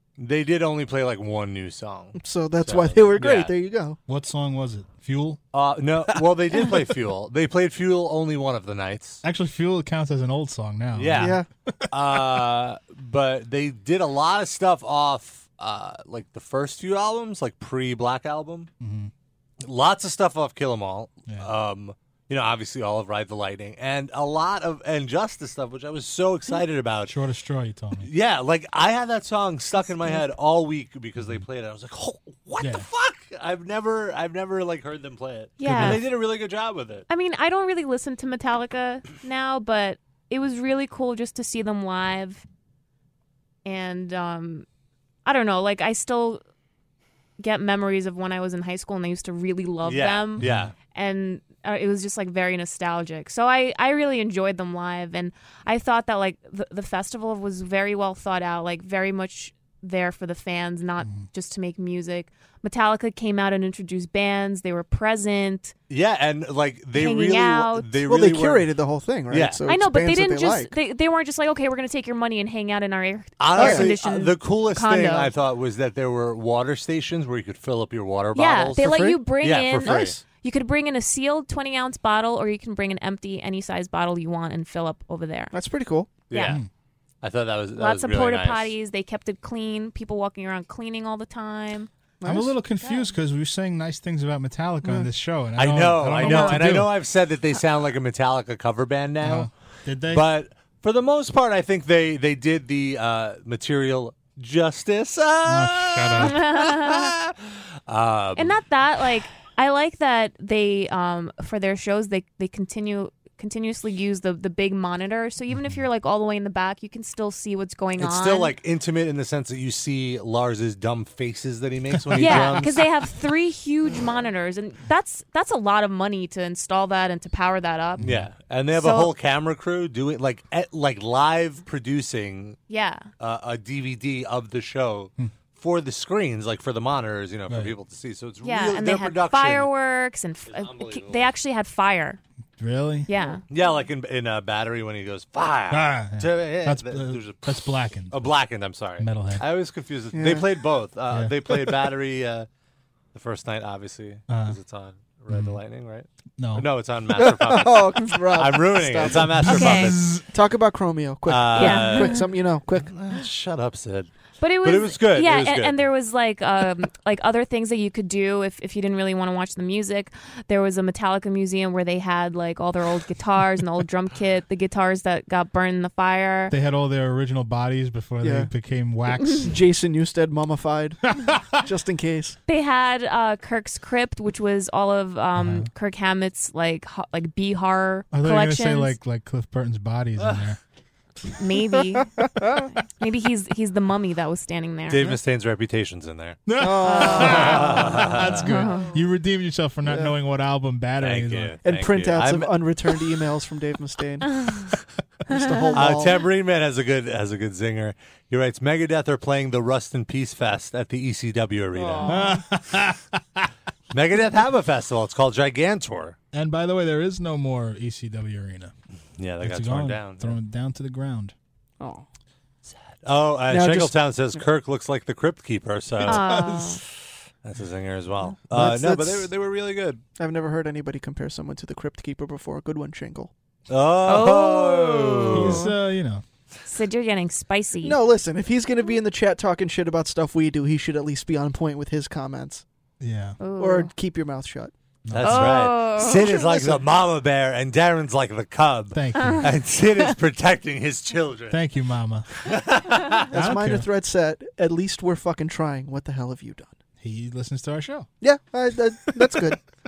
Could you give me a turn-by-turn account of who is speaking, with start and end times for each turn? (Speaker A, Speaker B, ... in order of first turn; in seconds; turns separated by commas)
Speaker A: 0.2-3.5, Speaker B: 2.2-4.0, Speaker C: 4.1-5.4, Speaker A: 5.5-9.2, Speaker C: 9.2-12.2, Speaker A: 10.9-11.4, Speaker B: 11.1-11.5, Speaker A: 11.9-18.7, Speaker C: 18.8-19.1, Speaker A: 19.6-27.1, Speaker C: 27.1-28.1, Speaker A: 28.0-37.0, Speaker C: 31.2-31.4, Speaker C: 32.6-32.9, Speaker D: 35.6-36.1, Speaker C: 35.6-36.1, Speaker D: 37.1-42.4, Speaker D: 43.6-44.6, Speaker D: 45.2-46.4, Speaker D: 47.4-65.7, Speaker A: 49.8-50.7, Speaker C: 50.4-50.7, Speaker C: 61.0-61.3, Speaker A: 65.9-68.7, Speaker D: 66.9-67.9, Speaker B: 68.0-70.7, Speaker A: 69.3-69.6, Speaker D: 69.7-75.3, Speaker A: 73.4-80.2, Speaker B: 73.5-73.9, Speaker D: 78.3-85.5, Speaker B: 78.8-79.2, Speaker B: 79.8-80.2, Speaker B: 85.5-86.1, Speaker D: 86.3-86.6, Speaker A: 86.3-86.6, Speaker A: 87.2-88.7, Speaker D: 87.8-91.9, Speaker B: 92.2-92.5, Speaker C: 92.2-97.0, Speaker D: 92.8-93.1, Speaker B: 94.8-95.1, Speaker A: 95.5-99.5, Speaker D: 96.2-96.5, Speaker C: 99.2-100.2, Speaker A: 100.1-108.6, Speaker C: 105.5-106.4, Speaker D: 106.2-107.1, Speaker D: 108.3-118.5, Speaker C: 115.5-115.8, Speaker A: 118.0-122.9, Speaker C: 121.9-122.6, Speaker D: 122.1-128.1, Speaker C: 128.0-128.3, Speaker A: 128.0-132.6, Speaker D: 128.7-129.1, Speaker D: 132.7-133.1, Speaker A: 133.2-139.7, Speaker C: 137.5-137.7, Speaker D: 138.4-142.2, Speaker A: 140.5-141.3, Speaker C: 142.6-143.1, Speaker D: 143.1-143.4, Speaker A: 143.5-152.5, Speaker C: 145.7-148.2, Speaker C: 149.0-149.4, Speaker B: 150.1-150.7, Speaker C: 151.1-151.3, Speaker A: 153.1-160.2, Speaker C: 154.3-154.6, Speaker C: 155.3-155.6, Speaker C: 156.4-156.7, Speaker B: 157.1-159.6, Speaker C: 159.3-160.2, Speaker D: 159.4-159.9, Speaker B: 160.2-162.9, Speaker A: 161.2-162.2, Speaker D: 161.5-162.2, Speaker A: 162.8-164.1, Speaker D: 164.4-176.5, Speaker A: 164.6-165.8, Speaker C: 176.5-179.5, Speaker B: 178.2-178.5, Speaker B: 179.4-182.4, Speaker C: 181.1-181.4, Speaker D: 182.5-189.0, Speaker C: 185.3-185.7, Speaker C: 188.1-190.6, Speaker D: 191.4-192.1, Speaker B: 192.2-192.7, Speaker D: 193.0-195.1, Speaker A: 194.9-196.4, Speaker C: 196.4-201.5, Speaker B: 196.6-198.2, Speaker D: 196.8-197.6, Speaker A: 197.2-198.5, Speaker D: 198.4-198.9, Speaker B: 199.8-200.1, Speaker A: 201.0-202.7, Speaker B: 201.6-204.5, Speaker B: 205.2-206.3, Speaker D: 205.3-205.8, Speaker A: 205.7-212.3, Speaker B: 211.7-212.4, Speaker C: 212.0-213.5, Speaker A: 213.9-216.2, Speaker C: 216.3-218.7, Speaker A: 219.2-220.4, Speaker C: 219.4-221.3, Speaker B: 221.8-222.0, Speaker A: 223.0-226.5, Speaker B: 223.5-224.4, Speaker D: 226.0-226.8, Speaker A: 227.4-230.0, Speaker B: 228.5-229.3, Speaker B: 230.2-233.3, Speaker A: 233.7-235.7, Speaker D: 234.1-235.7, Speaker C: 235.3-236.2, Speaker D: 236.7-238.0, Speaker B: 237.8-242.6, Speaker C: 243.0-243.4, Speaker D: 243.4-243.9, Speaker B: 243.6-244.7, Speaker C: 245.1-245.6, Speaker A: 245.1-251.6, Speaker D: 245.2-246.4, Speaker B: 246.2-246.8, Speaker C: 248.9-249.5, Speaker D: 249.2-249.4, Speaker C: 251.5-252.3, Speaker A: 252.4-253.3, Speaker C: 253.3-253.9, Speaker B: 253.3-256.8, Speaker C: 257.0-258.1, Speaker B: 258.2-259.6